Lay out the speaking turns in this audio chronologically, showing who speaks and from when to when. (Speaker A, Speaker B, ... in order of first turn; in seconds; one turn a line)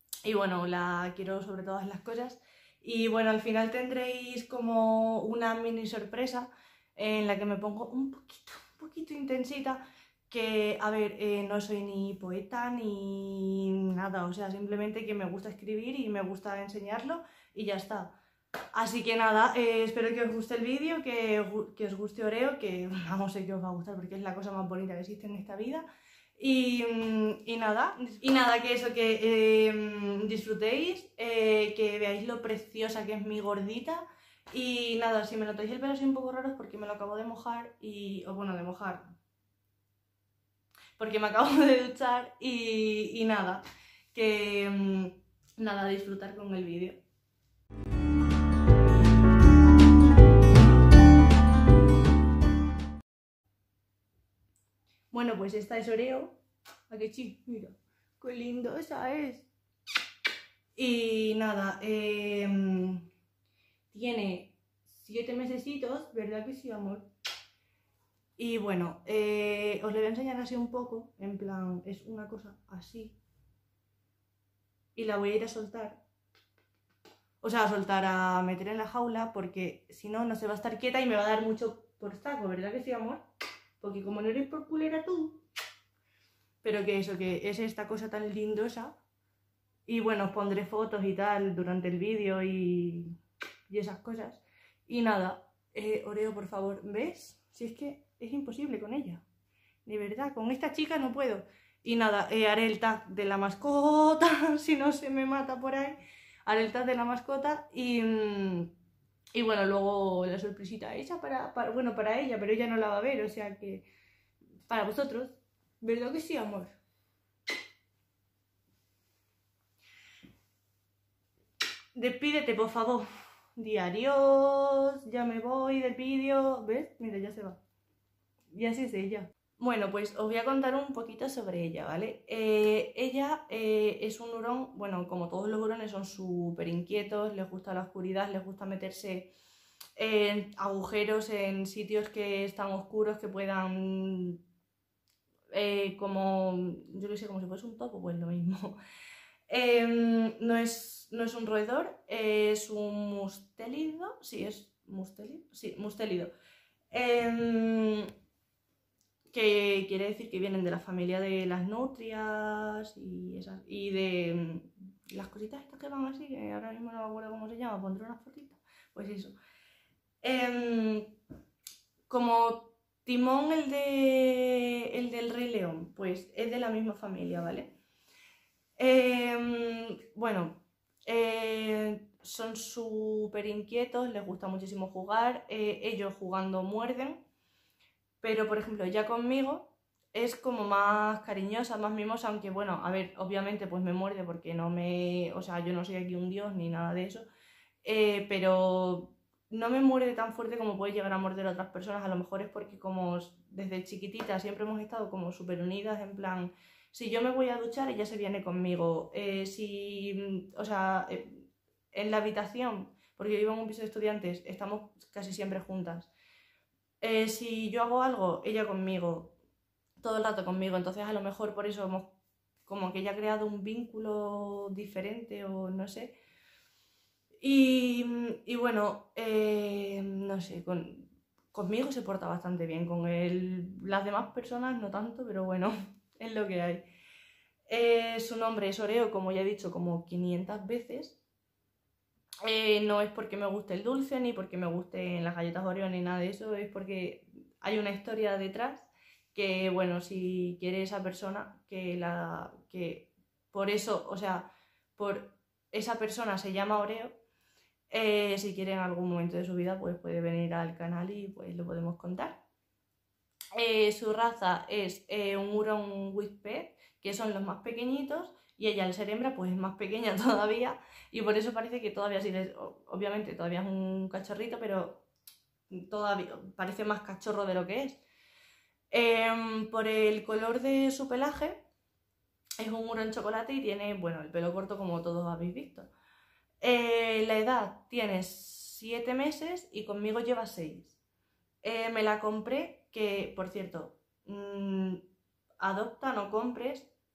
Speaker A: 0.2-18.1
Speaker A: 18.7-25.8
Speaker A: 26.4-39.1
Speaker A: 41.0-47.0
Speaker A: 55.1-59.5
Speaker A: 60.8-63.0
Speaker A: 63.9-67.1
Speaker A: 68.4-73.2
Speaker A: 74.9-76.0
Speaker A: 77.4-83.2
Speaker A: 83.8-85.4
Speaker A: 86.6-89.0
Speaker A: 89.9-93.2
Speaker A: 93.7-99.2
Speaker A: 99.8-108.7
Speaker A: 109.3-113.8
Speaker A: 114.7-116.8
Speaker A: 121.9-127.6
Speaker A: 128.5-139.3
Speaker A: 139.9-144.4
Speaker A: 145.5-148.8
Speaker A: 149.5-156.3
Speaker A: 156.9-158.1
Speaker A: 159.3-169.3
Speaker A: 170.2-171.2
Speaker A: 172.1-177.7
Speaker A: 178.8-187.2
Speaker A: 188.2-197.2
Speaker A: 197.8-216.1
Speaker A: 217.0-219.3
Speaker A: 220.0-222.1
Speaker A: 222.7-226.2
Speaker A: 227.4-236.8
Speaker A: 237.7-241.2
Speaker A: 242.4-257.2
Speaker A: 257.9-262.4
Speaker A: 263.6-275.0
Speaker A: 275.7-278.0
Speaker A: 278.9-281.6
Speaker A: 282.6-285.9
Speaker A: 286.6-291.0
Speaker A: 291.6-295.0
Speaker A: 295.6-296.9